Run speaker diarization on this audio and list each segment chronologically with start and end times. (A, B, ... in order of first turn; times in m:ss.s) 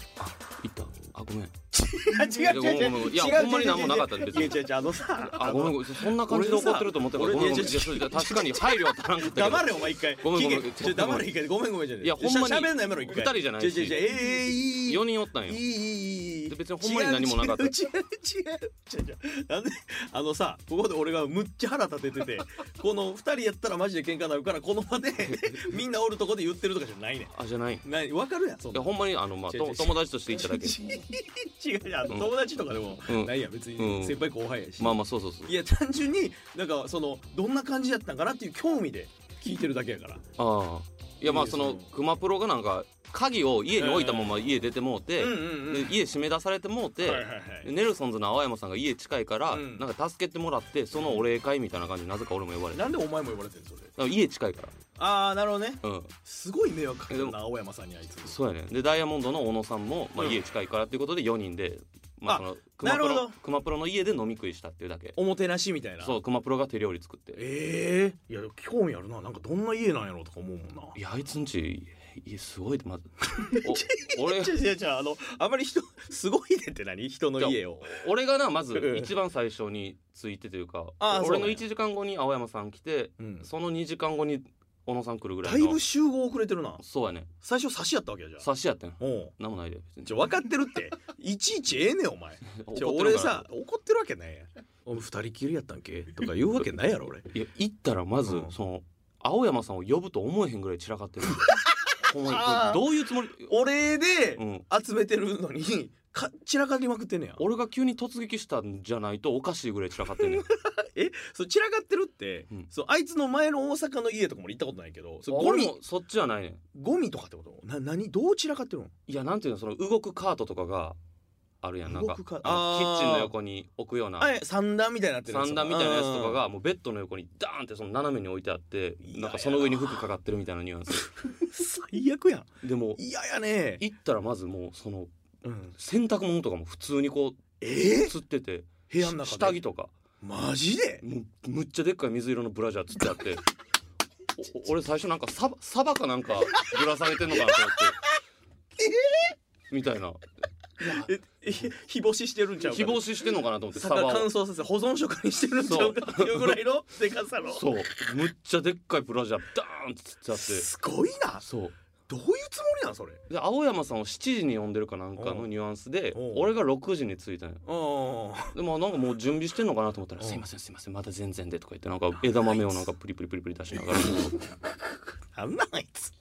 0:00.2-0:01.5 A
0:01.7-0:27.3 B
0:02.2-0:04.6 A
0:05.4-0:11.3 A
0:12.0-0:14.1 A
0:14.8-0:15.6 A
0:16.5-0:17.7 A
0:25.2-0:25.8 A
0:27.3-0:27.8 A
0:27.8-0:28.9 B
0:28.7-0:30.8 A
0:29.5-0:40.2 B
0:32.1-0:32.4 A
0:33.1-0:34.2 A
0:34.8-0:35.6 A
0:40.4-0:52.8 A
0:41.2-0:41.9 B
0:43.8-0:44.3 B
0:45.2-0:45.9 B
0:47.0-0:47.7 B
0:49.5-0:49.8 B
0:51.0-0:51.2 B
0:52.7-0:53.9 B
0:54.0-0:54.7 A
0:55.0-0:58.4 B
0:55.8-0:56.2 A
0:57.1-0:57.4 A
0:58.2-1:05.2 A
1:02.3-1:03.4 B
1:05.2-1:06.2 B
1:06.0-1:07.4 A
1:07.4-1:11.0 B
1:11.0-1:14.5 A
1:13.3-1:18.0 B
1:17.4-1:25.8 A
1:18.7-1:19.1 B
1:21.0-1:21.6 B
1:23.2-1:23.5 B
1:25.4-1:26.8 B
1:26.8-1:27.3 A
1:27.4-1:28.5 B
1:28.4-1:30.2 A
1:29.0-1:29.3 B
1:30.0-1:37.3 B
1:32.5-1:33.5 A
1:37.3-1:43.6 A
1:38.2-1:38.5 B
1:42.2-1:42.9 B
1:43.5-1:47.4 B
1:44.4-1:44.6 A
1:47.4-1:50.5 A
1:50.2-1:55.8 B
1:55.3-1:56.6 A
1:56.7-1:58.9 B
1:59.1-2:01.0 A
2:01.6-2:04.3 A
2:01.8-2:03.3 B
2:04.2-2:06.4 B
2:05.3-2:11.3 A
2:09.0-2:10.0 B
2:11.4-2:13.8 B
2:12.6-2:13.0 A
2:13.8-2:15.1 A
2:15.4-2:15.7 B
2:15.8-2:19.9 A
2:17.6-2:18.1 B
2:18.9-2:19.6 B
2:20.2-2:21.0 B
2:21.0-2:23.4 A
2:24.4-2:28.0 A
2:28.8-2:29.3 B
2:29.7-2:30.3 A
2:30.8-2:33.1 B
2:32.7-2:34.3 A
2:33.7-2:37.7 B
2:35.6-2:36.6 A
2:37.5-2:40.6 A
2:40.4-2:41.4 B
2:41.4-2:41.7 A
2:42.1-2:43.2 B
2:43.3-2:47.6 A
2:45.2-2:45.5 B
2:46.1-2:46.5 B
2:47.6-2:48.6 B
2:48.5-2:54.5 A
2:50.2-2:50.4 B
2:53.9-2:54.5 B
2:55.3-2:56.1 B